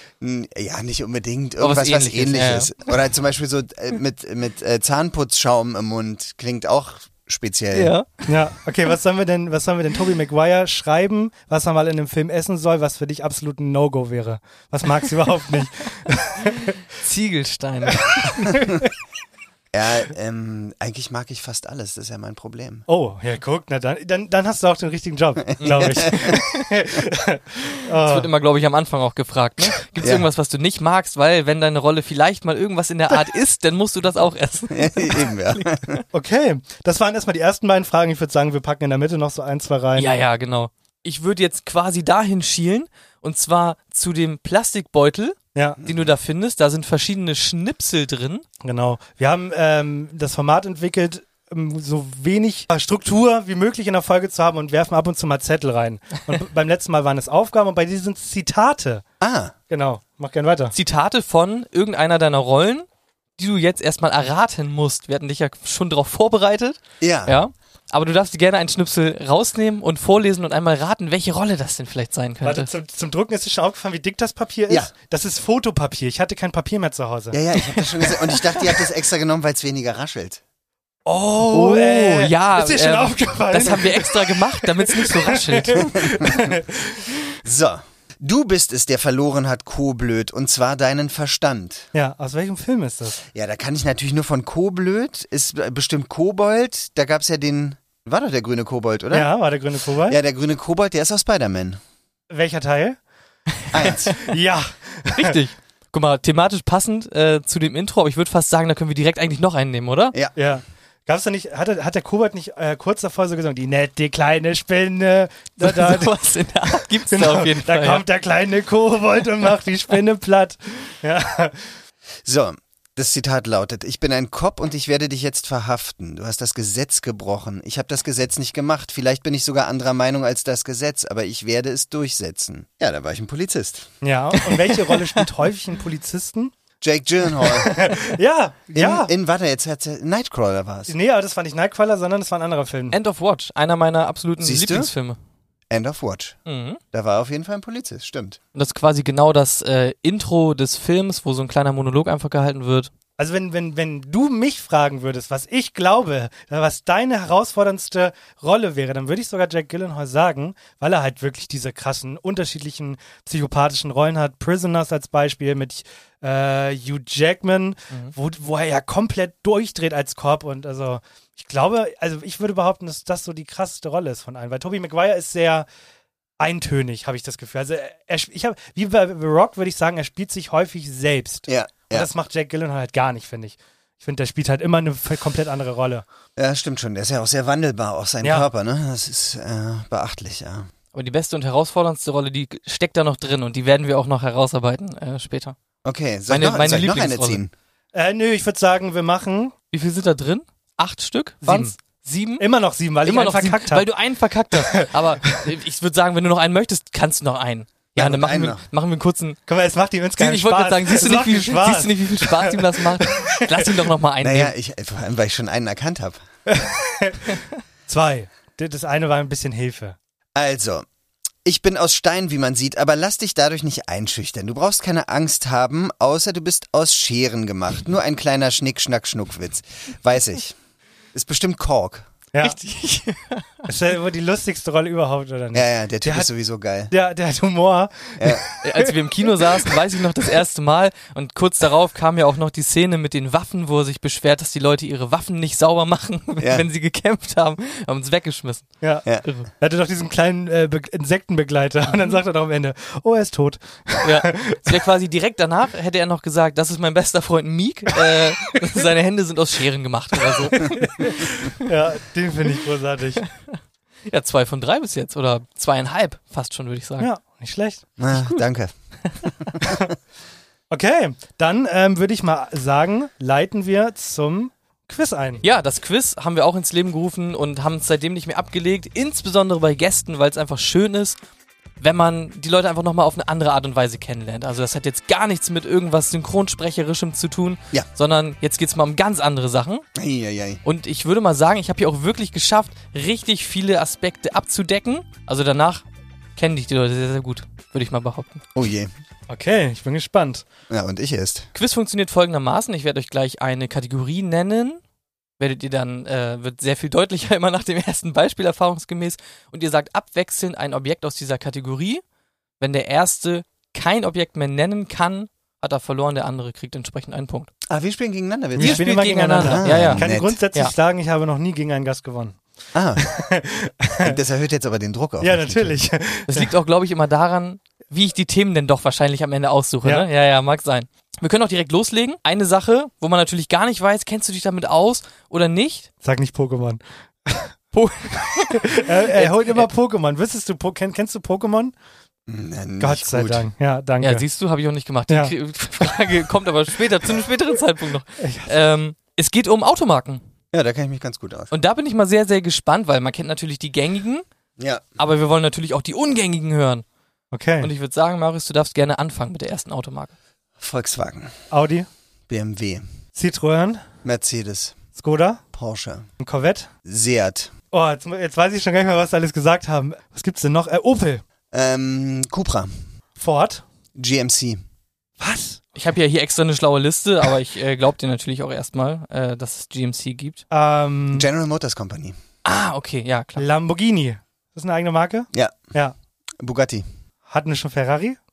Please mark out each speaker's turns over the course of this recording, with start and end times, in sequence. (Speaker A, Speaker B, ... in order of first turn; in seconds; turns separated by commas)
Speaker A: 0.2-7.9, Speaker B: 1.6-2.7, Speaker B: 7.7-8.1, Speaker C: 8.3-16.8, Speaker B: 17.0-18.5, Speaker C: 18.1-18.9, Speaker A: 19.7-22.9, Speaker C: 22.9-28.3, Speaker A: 25.6-26.3, Speaker B: 25.6-26.5, Speaker B: 28.0-36.0, Speaker A: 30.0-30.3, Speaker A: 34.7-35.9, Speaker C: 36.1-40.1, Speaker B: 39.9-48.4, Speaker C: 45.5-45.8, Speaker A: 45.8-46.1, Speaker C: 48.6-59.0, Speaker A: 59.2-59.5, Speaker C: 59.7-60.7, Speaker B: 60.7-62.9, Speaker B: 63.4-72.7, Speaker A: 67.0-67.4, Speaker C: 72.4-77.4, Speaker A: 77.3-80.4, Speaker C: 81.0-87.2, Speaker B: 81.5-86.2, Speaker A: 86.0-86.5, Speaker A: 87.4-91.9, Speaker C: 91.9-93.2, Speaker A: 93.2-99.3, Speaker C: 99.1-100.2, Speaker A: 100.0-101.8, Speaker C: 102.3-103.0, Speaker A: 103.7-104.2, Speaker C: 104.2-105.3, Speaker B: 105.1-110.2, Speaker C: 110.3-116.1, Speaker B: 115.6-118.0, Speaker C: 117.1-121.7, Speaker A: 122.2-133.9, Speaker C: 134.0-136.5, Speaker B: 134.6-135.2, Speaker A: 136.8-138.0, Speaker C: 137.4-139.1, Speaker A: 138.7-140.9, Speaker C: 140.9-142.9, Speaker B: 142.9-145.2, Speaker A: 144.4-144.9, Speaker A: 145.7-146.4, Speaker B: 146.4-146.8, Speaker A: 146.9-148.4, Speaker B: 148.5-152.9, Speaker C: 153.2-175.7, Speaker C: 176.4-186.0, Speaker A: 181.5-182.1, Speaker A: 186.4-190.7, Speaker B: 190.9-195.6, Speaker A: 195.8-197.5, Speaker B: 196.3-197.4, Speaker C: 197.9-199.5, Speaker B: 199.7-202.4, Speaker C: 201.4-201.7, Speaker C: 202.4-203.9, Speaker B: 203.0-209.4, Speaker A: 207.9-208.7, Speaker C: 209.5-213.8, Speaker B: 210.2-214.5, Speaker A: 214.2-216.2, Speaker C: 216.5-219.9, Speaker A: 220.3-220.9, Speaker A: 221.4-230.6, Speaker A: 231.1-232.1, Speaker B: 232.4-233.6, Speaker C: 233.7-236.3, Speaker A: 235.5-236.9, Speaker C: 236.9-239.8, Speaker A: 238.2-238.4, Speaker B: 238.6-249.5, Speaker A: 246.4-246.6, Speaker C: 249.6-254.6, Speaker B: 251.9-252.2, Speaker B: 254.0-261.1, Speaker C: 260.3-263.2, Speaker B: 264.1-267.1, Speaker C: 267.0-267.9, Speaker A: 268.0-268.7, Speaker B: 268.1-268.4, Speaker B: 269.1-269.5, Speaker A: 269.2-269.6, Speaker C: 270.7-275.4, Speaker B: 275.4-281.2, Speaker B: 281.8-289.9, Speaker A: 289.9-290.6, Speaker B: 290.6-295.8, Speaker B: 296.4-298.4, Speaker A: 298.5-298.9, Speaker C: 299.3-300.4, Speaker A: 300.7-301.5, Speaker B: 301.5-304.8, Speaker B: 305.4-312.0, Speaker B: 312.6-317.5, Speaker A: 317.7-320.4, Speaker C: 318.6-322.4, Speaker B: 318.6-320.7, Speaker A: 322.7-323.1, Speaker C: 323.0-324.2, Speaker A: 324.0-325.8, Speaker C: 325.2-326.5, Speaker B: 326.3-335.9, Speaker C: 336.0-337.5, Speaker B: 337.7-339.7, Speaker C: 338.6-341.7, Speaker A: 342.3-343.5, Speaker C: 342.8-344.2, Speaker B: 344.0-350.2, Speaker C: 345.1-345.3, Speaker C: 348.2-348.6, Speaker A: 350.5-351.5, Speaker B: 351.5-354.2, Speaker A: 354.6-355.0, Speaker B: 355.0-356.8, Speaker C: 357.3-357.7, Speaker B: 357.6-360.1, Speaker A: 360.6-361.4, Speaker C: 361.5-361.9, Speaker A: 362.3-362.9, Speaker C: 363.1-363.9, Speaker A: 364.0-364.8, Speaker C: 365.0-365.4, Speaker A: 365.5-366.1, Speaker C: 366.2-366.7, Speaker A: 366.9-367.5, Speaker C: 367.7-371.2, Speaker A: 371.5-372.8, Speaker C: 373.1-373.6, Speaker A: 373.9-374.6, Speaker C: 375.2-375.6, Speaker B: 375.8-380.4, Speaker C: 380.5-381.3, Speaker A: 381.1-382.1, Speaker B: 382.4-383.4, Speaker C: 383.4-385.9, Speaker A: 385.3-385.7, Speaker A: 386.4-386.9, Speaker C: 387.3-388.2